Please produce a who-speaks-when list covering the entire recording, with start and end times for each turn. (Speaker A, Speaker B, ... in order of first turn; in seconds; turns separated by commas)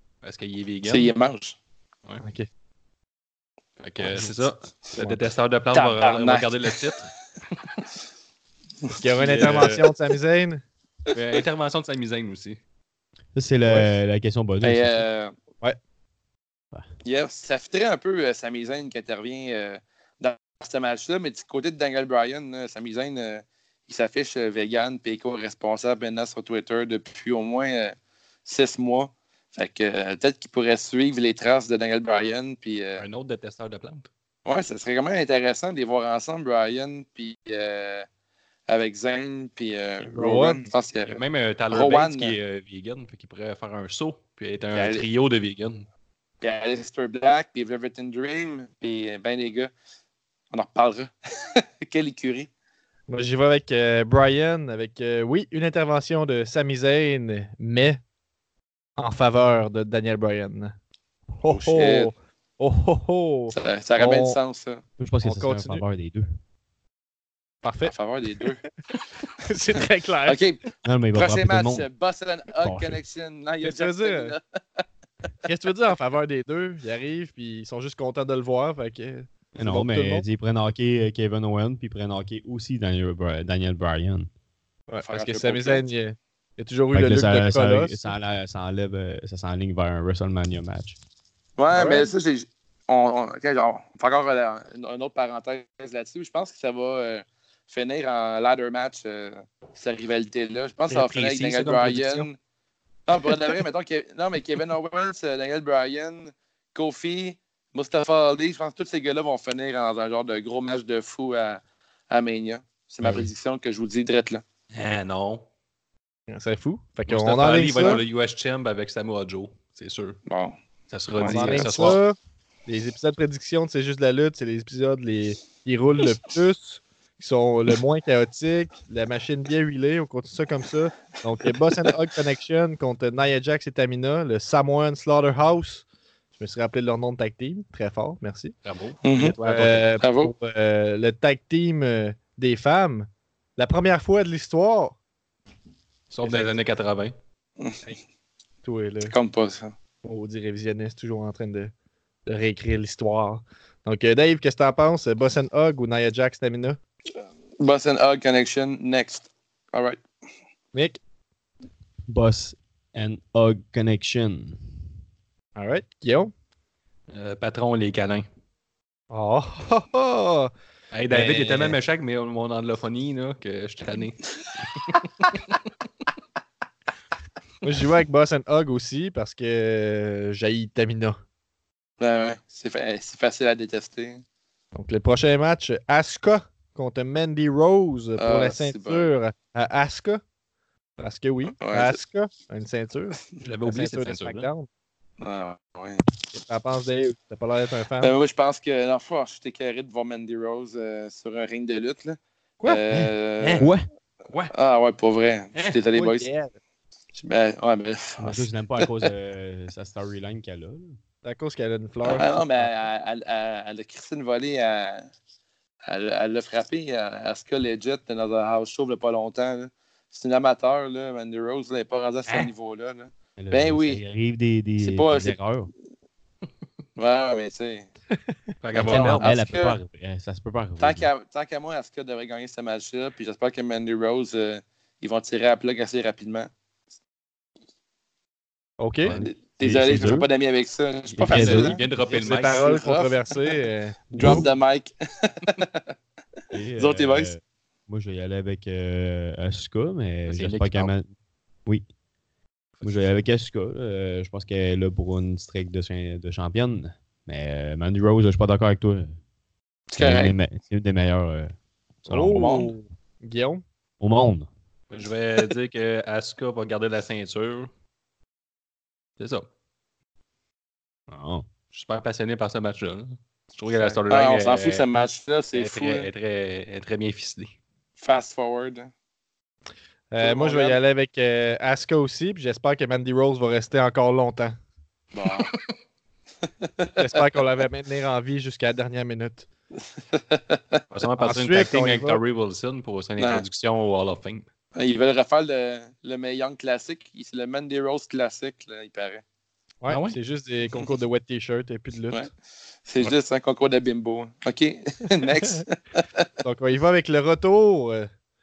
Speaker A: 0.2-1.1, Speaker B: 0.8-1.6, Speaker C: 2.2-2.5, Speaker A: 3.8-7.1, Speaker C: 4.0-4.3, Speaker B: 5.7-6.9, Speaker B: 8.9-9.9, Speaker C: 9.0-10.6, Speaker A: 9.2-9.8, Speaker A: 11.1-12.6, Speaker D: 13.3-15.0, Speaker B: 14.6-15.3, Speaker B: 17.0-33.0, Speaker A: 33.0-34.1, Speaker B: 34.5-38.1, Speaker B: 38.7-42.4, Speaker C: 40.1-40.6, Speaker A: 41.0-45.9, Speaker B: 44.7-45.0, Speaker B: 46.4-49.7, Speaker B: 50.5-52.5, Speaker C: 53.1-58.0, Speaker C: 59.0-60.7, Speaker C: 61.4-64.4, Speaker B: 61.5-62.1, Speaker B: 63.5-64.8, Speaker D: 65.0-66.3, Speaker C: 65.2-65.8, Speaker C: 67.6-67.9, Speaker B: 67.8-68.6, Speaker C: 69.4-70.4, Speaker B: 70.3-74.8, Speaker D: 70.8-71.9, Speaker D: 72.6-73.0, Speaker C: 73.6-74.3, Speaker C: 75.5-80.2, Speaker D: 79.6-84.3, Speaker C: 84.9-88.0, Speaker B: 85.0-85.8, Speaker D: 86.9-91.0, Speaker B: 91.6-102.4, Speaker C: 91.7-92.1, Speaker A: 100.9-102.3, Speaker B: 103.1-114.4, Speaker A: 113.0-113.3, Speaker A: 114.7-115.5, Speaker C: 116.3-118.0, Speaker A: 117.1-120.2, Speaker B: 117.7-118.0, Speaker B: 120.3-120.6, Speaker A: 120.9-122.0, Speaker B: 121.2-121.9, Speaker C: 121.2-122.2, Speaker C: 122.7-135.8, Speaker C: 136.4-138.5, Speaker A: 138.6-139.9, Speaker B: 139.0-139.4, Speaker C: 139.4-145.0, Speaker B: 140.0-140.3, Speaker A: 146.1-147.2, Speaker C: 146.2-146.6, Speaker B: 147.6-147.9, Speaker C: 148.6-149.1, Speaker B: 149.1-149.8, Speaker C: 150.0-151.7, Speaker C: 152.3-156.8, Speaker B: 157.6-160.0, Speaker C: 160.7-161.0, Speaker D: 162.1-164.7, Speaker C: 165.6-166.3, Speaker A: 167.1-168.3, Speaker C: 169.1-170.5, Speaker A: 170.9-175.6, Speaker C: 171.1-171.8, Speaker C: 177.6-181.2, Speaker B: 182.0-184.2, Speaker C: 184.8-190.2, Speaker B: 188.2-189.1, Speaker C: 191.0-194.7, Speaker B: 191.5-192.0, Speaker A: 193.4-194.5, Speaker B: 195.2-196.0, Speaker C: 196.3-198.2, Speaker B: 198.0-203.7, Speaker A: 203.4-203.7, Speaker D: 203.6-203.8, Speaker B: 204.5-206.3, Speaker C: 205.9-206.5, Speaker B: 207.1-209.1, Speaker D: 208.2-211.0, Speaker C: 211.2-212.7, Speaker B: 212.0-215.1, Speaker B: 215.9-224.0, Speaker D: 223.4-225.7, Speaker B: 224.8-225.4, Speaker B: 227.0-227.9, Speaker A: 228.6-229.3, Speaker D: 228.8-231.1, Speaker B: 228.9-229.8, Speaker B: 230.8-236.5, Speaker C: 238.8-239.2, Speaker A: 239.0-239.3, Speaker B: 239.2-243.3, Speaker D: 239.6-240.3, Speaker A: 241.2-242.8, Speaker D: 241.2-241.8, Speaker C: 242.2-244.5, Speaker B: 244.1-245.8, Speaker D: 246.5-251.1, Speaker B: 246.8-247.4, Speaker A: 250.3-250.9, Speaker D: 252.8-259.1, Speaker B: 259.9-260.4, Speaker D: 260.0-261.5, Speaker D: 262.1-262.6, Speaker C: 262.1-263.6, Speaker B: 262.3-262.7, Speaker D: 264.0-264.5, Speaker A: 264.9-267.7, Speaker A: 269.2-269.5, Speaker D: 271.1-271.5, Speaker A: 271.7-274.9, Speaker B: 274.1-276.1, Speaker A: 275.5-277.5, Speaker B: 278.0-278.9, Speaker C: 280.1-284.6, Speaker B: 280.2-280.8, Speaker B: 285.1-285.5, Speaker B: 286.6-286.9, Speaker C: 287.0-289.5, Speaker B: 290.1-290.8, Speaker A: 290.9-294.5, Speaker C: 291.2-292.2, Speaker B: 293.2-293.4, Speaker B: 294.8-299.2, Speaker C: 299.8-302.3, Speaker A: 299.9-300.2, Speaker B: 302.9-306.3, Speaker C: 306.4-308.1